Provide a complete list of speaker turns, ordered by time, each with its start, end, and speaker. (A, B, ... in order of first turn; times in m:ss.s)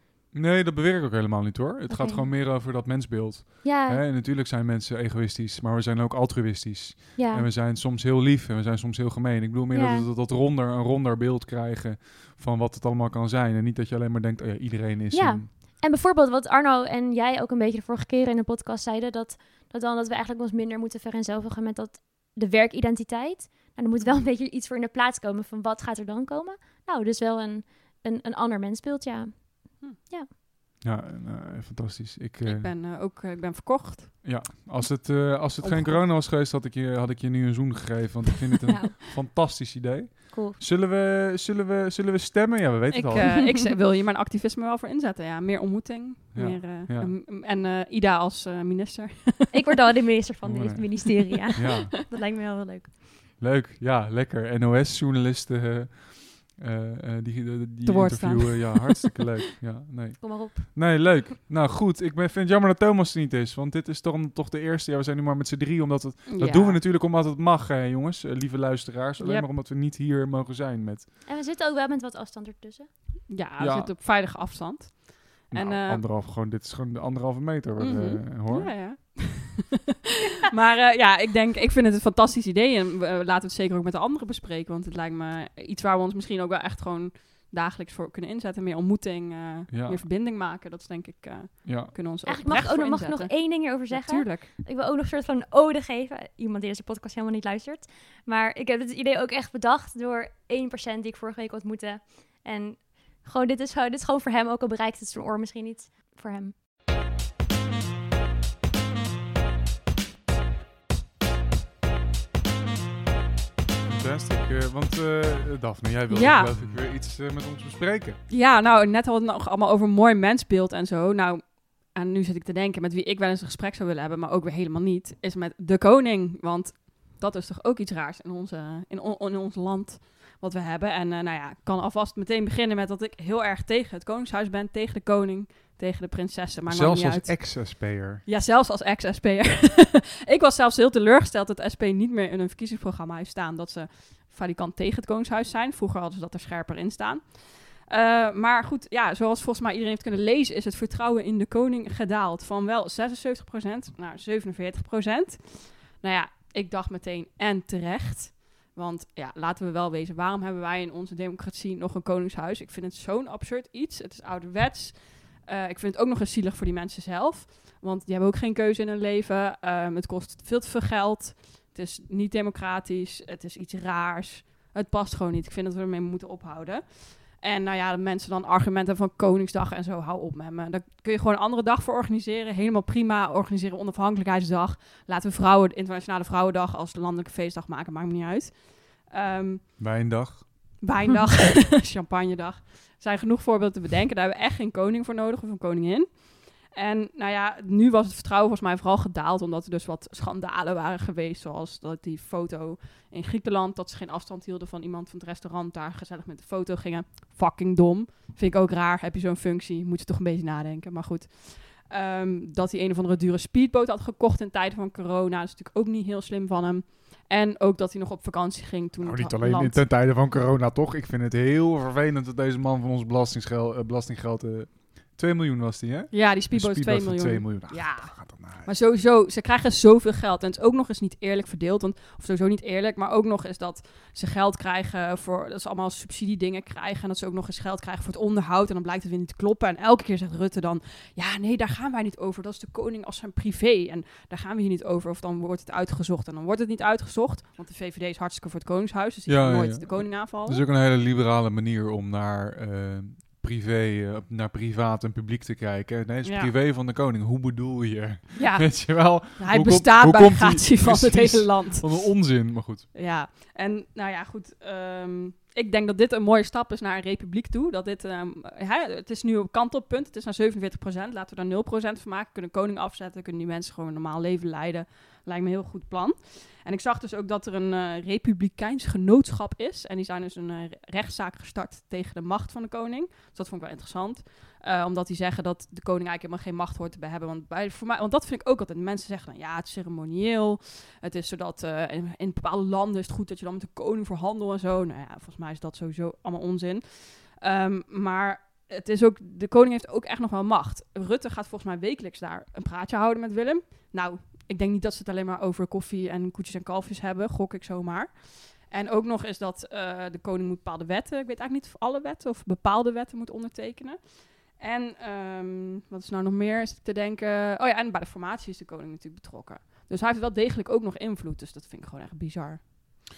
0:00.3-0:15.5 A
0:01.9-0:02.3 B
0:03.6-0:04.0 B
0:07.2-0:07.5 B
0:09.7-0:10.1 B
0:15.1-0:30.3 B
0:30.8-0:32.7 A
0:32.4-0:34.2 C
0:34.2-0:43.4 A
0:35.6-0:36.0 C
0:38.7-0:39.0 B
0:40.3-0:40.6 B
0:42.9-0:49.7 C
0:43.2-0:43.5 B
0:46.4-0:47.1 A
0:49.5-0:52.9 B
0:50.4-0:52.0 A
0:53.4-1:11.1 A
0:57.9-0:59.2 C
1:00.2-1:00.8 B
1:06.3-1:06.8 C
1:09.2-1:09.5 C
1:11.3-1:12.9 B
1:13.3-1:16.0 C
1:13.6-1:13.9 A
1:15.5-1:18.8 A
1:17.8-1:19.8 C
1:20.4-1:34.5 C
1:29.7-1:30.1 A
1:31.6-1:31.9 A
1:32.2-1:46.5 B
1:53.9-1:58.2 A
1:56.1-1:56.5 C
1:58.3-3:09.8 C
2:16.7-2:18.2 A
3:09.8-3:10.8 A
3:10.8-3:39.9 C
3:39.0-3:48.8 A
3:46.1-4:10.6 C
4:09.3-4:22.9 A
4:16.2-4:16.5 C
4:18.4-5:22.6 C